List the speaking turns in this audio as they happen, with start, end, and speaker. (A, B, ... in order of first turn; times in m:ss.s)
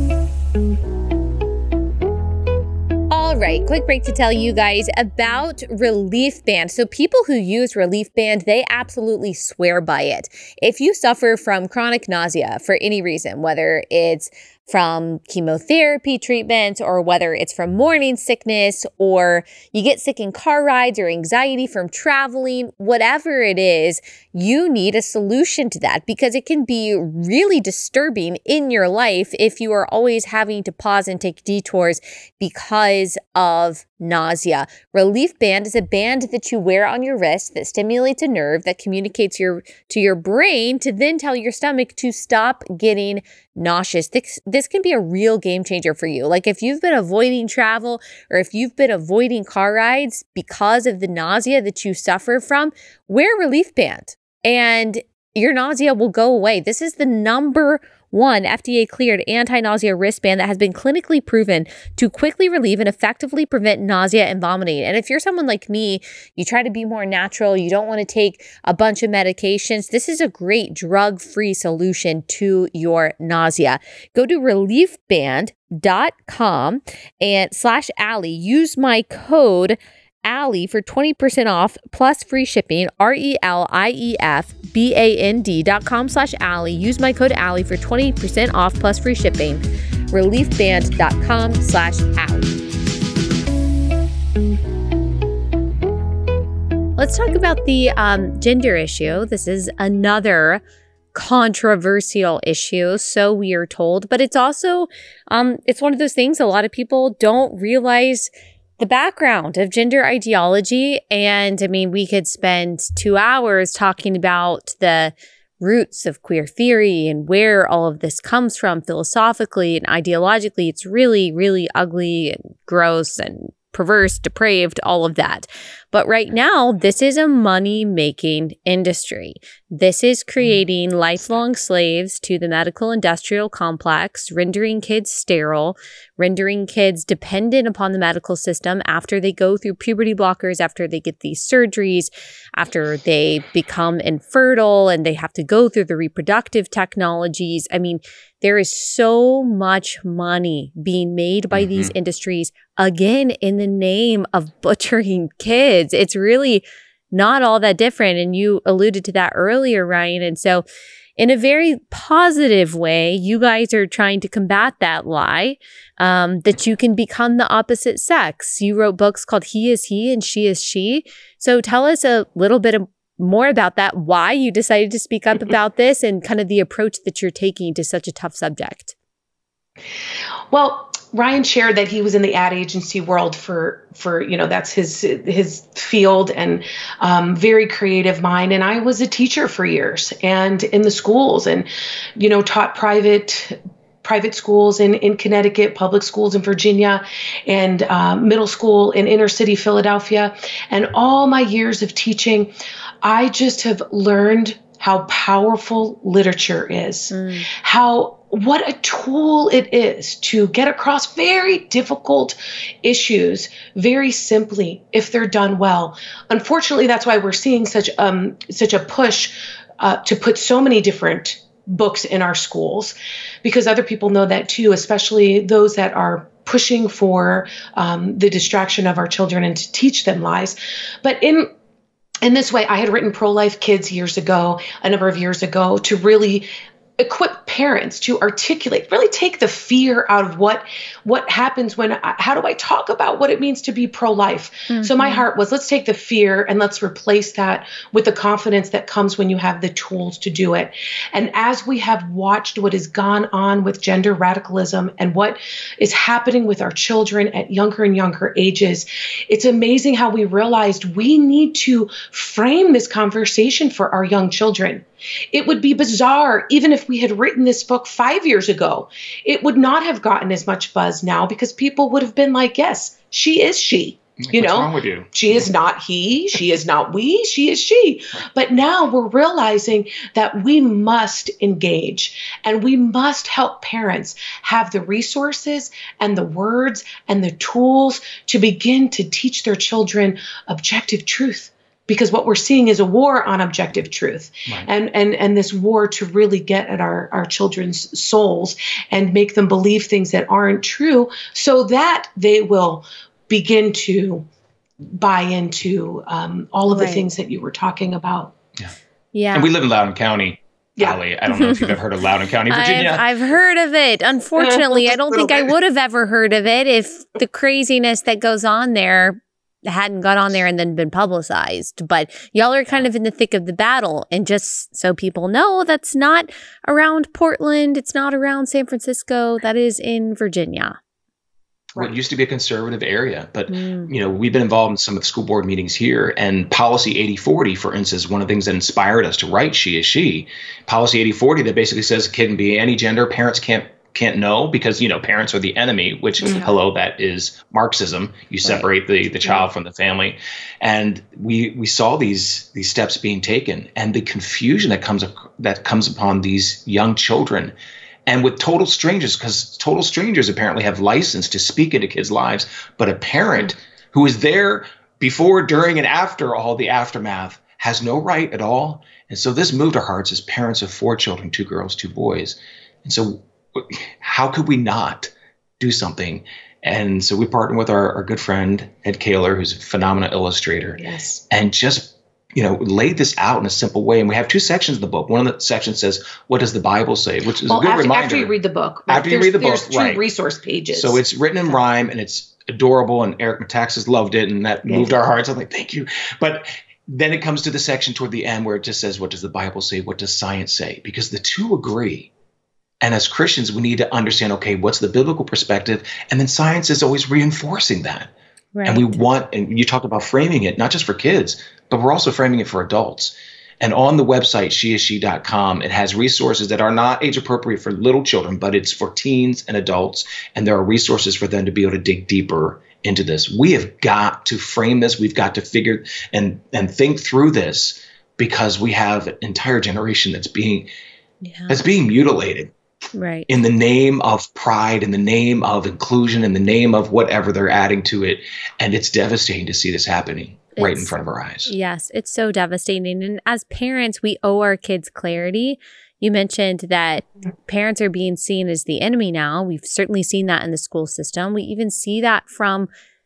0:03.1-1:32.6 A
1:37.0-1:40.6 A
1:41.1-2:40.6 A
2:31.5-2:31.9 B
2:41.2-2:58.9 A
3:00.5-3:51.5 C
3:27.1-3:27.5 A
3:52.2-5:04.3 C
4:04.7-4:05.2 A
4:34.2-4:35.5 B
5:04.9-5:08.3 C
5:06.7-5:07.1 A
5:09.1-5:09.5 A
5:09.3-5:13.1 B
5:11.3-5:11.8 A
5:12.5-5:30.8 A
5:14.4-5:15.5 C
5:31.8-5:57.5 B
5:33.5-5:33.9 A
5:46.2-5:46.5 C
5:58.1-6:28.3 B
6:20.8-6:21.2 C
6:27.5-6:31.0 C
6:28.9-6:30.0 B
6:30.7-6:42.1 B
6:34.7-6:34.9 C
6:42.8-6:48.1 B
6:48.6-6:49.0 A
6:48.6-7:10.7 B
7:11.2-7:11.6 A
7:11.5-7:12.5 B
7:13.0-7:13.3 A
7:13.3-7:21.5 B
7:20.6-7:21.0 A
7:21.5-7:32.7 A